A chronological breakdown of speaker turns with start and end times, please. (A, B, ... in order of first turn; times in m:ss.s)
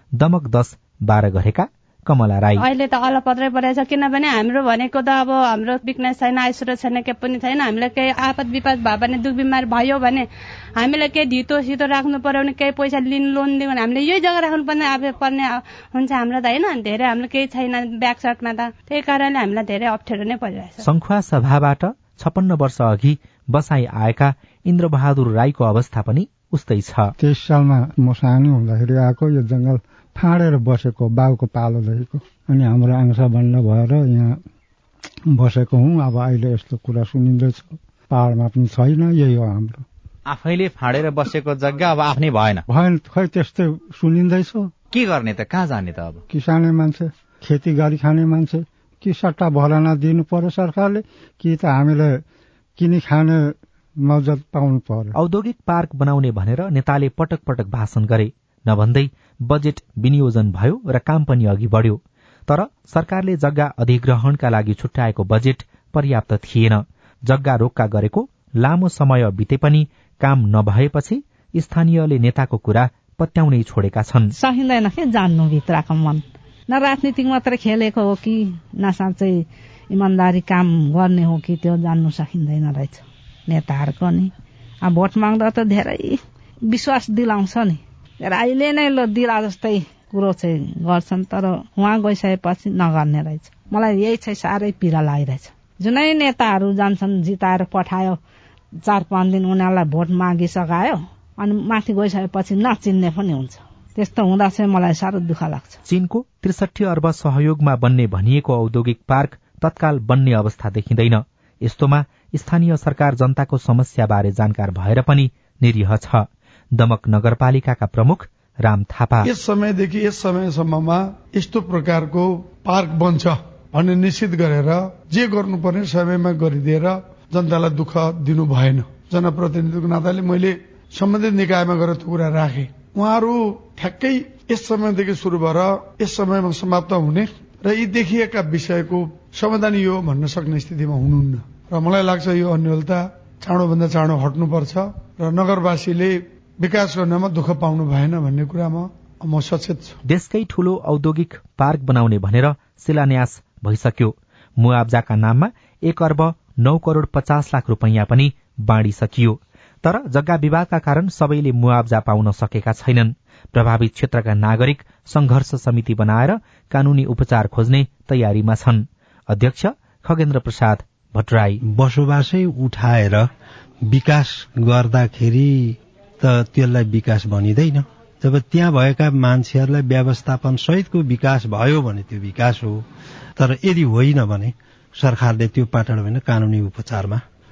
0:00.2-0:02.6 A
0:02.6-0:10.2 B
0:10.8-0:20.8 B
0:20.8-0:27.1 A
0:27.2-0:34.4 C
0:35.3-0:39.8 C
0:40.3-0:42.6 D
0:42.7-0:44.7 C
0:44.9-0:46.2 D
0:46.3-0:52.2 C
0:52.8-0:55.1 C
0:55.1-1:14.3 A
1:14.3-1:24.3 E
1:24.8-1:38.2 E
1:38.8-1:45.8 E
1:45.9-1:59.3 A
1:59.2-2:30.0 F
2:30.0-2:51.6 A
2:51.6-2:53.3 G
2:53.9-3:02.8 G
3:03.4-3:07.2 G